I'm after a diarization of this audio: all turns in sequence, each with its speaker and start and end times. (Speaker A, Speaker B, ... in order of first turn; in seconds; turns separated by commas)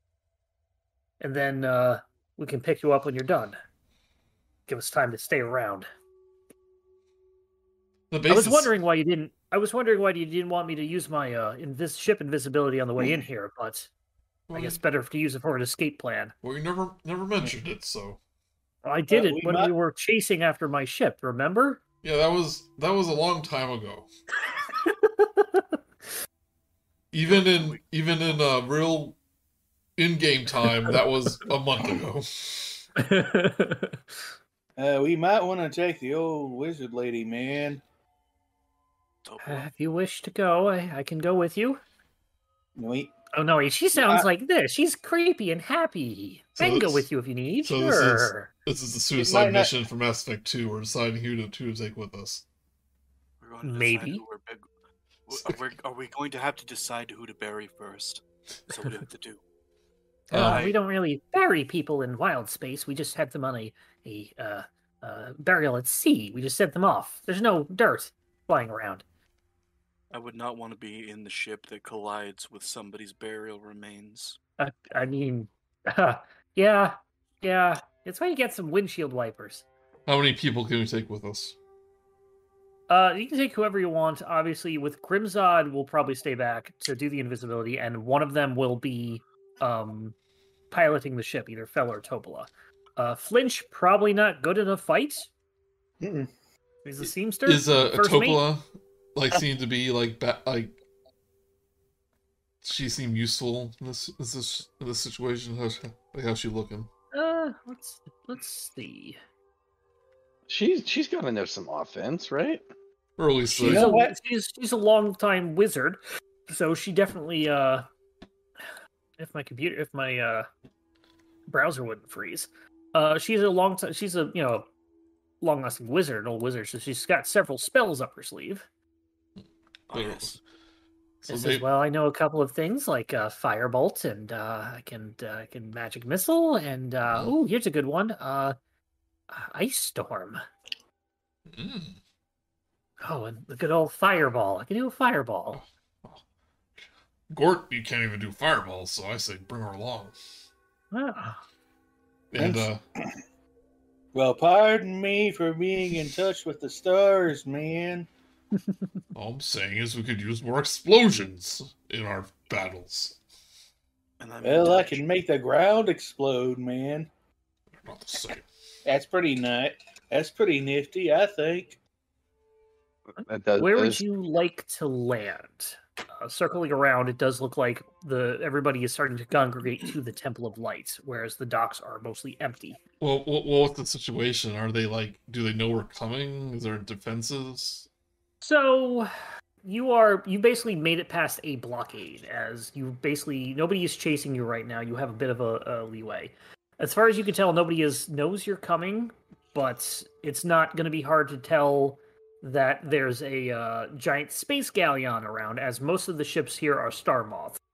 Speaker A: 1.2-3.6, Speaker A: 4.7-5.9, Speaker B: 8.1-8.7, Speaker A: 8.3-13.9, Speaker B: 14.5-14.8, Speaker A: 14.5-16.3, Speaker B: 16.4-18.2, Speaker A: 18.8-21.8, Speaker C: 19.1-19.7, Speaker B: 22.0-24.1, Speaker A: 24.7-25.6, Speaker B: 27.1-29.2, Speaker D: 27.2-28.4, Speaker B: 30.0-32.8, Speaker A: 33.0-34.0, Speaker C: 34.8-37.8, Speaker D: 39.2-39.6, Speaker A: 39.4-41.8, Speaker C: 42.8-43.1, Speaker A: 43.3-48.5, Speaker C: 44.0-44.2, Speaker B: 46.6-47.0, Speaker B: 47.6-52.4, Speaker C: 49.2-49.7, Speaker D: 53.4-54.6, Speaker A: 53.6-54.2, Speaker D: 55.3-59.4, Speaker A: 60.3-69.0, Speaker B: 60.3-60.7, Speaker D: 60.3-60.7, Speaker D: 70.1-74.4, Speaker A: 74.6-79.7, Speaker B: 80.1-81.5, Speaker A: 82.9-90.1, Speaker A: 90.7-95.3, Speaker C: 96.0-96.3, Speaker A: 96.8-98.4, Speaker B: 97.5-98.6, Speaker B: 99.1-100.8, Speaker B: 102.6-106.9, Speaker A: 107.1-109.2, Speaker E: 110.5-112.6, Speaker B: 113.2-114.0, Speaker C: 113.5-114.2, Speaker A: 113.6-117.8, Speaker A: 119.2-120.5, Speaker A: 121.5-124.7, Speaker A: 125.4-128.7, Speaker B: 129.4-130.3, Speaker D: 129.9-130.4, Speaker B: 131.2-131.7, Speaker A: 131.3-138.5, Speaker B: 137.1-137.3, Speaker A: 139.3-140.4, Speaker B: 141.5-142.0, Speaker A: 143.0-145.6, Speaker B: 145.5-146.2, Speaker B: 147.3-150.2, Speaker A: 150.9-151.4, Speaker B: 152.3-152.8, Speaker C: 152.4-153.1, Speaker C: 154.1-158.1, Speaker B: 159.1-163.2, Speaker D: 164.2-165.0, Speaker C: 164.4-167.1, Speaker B: 167.8-168.5, Speaker C: 168.8-171.8, Speaker A: 173.2-182.8, Speaker E: 173.2-174.0, Speaker B: 183.0-187.9, Speaker A: 188.4-189.1, Speaker A: 189.6-207.6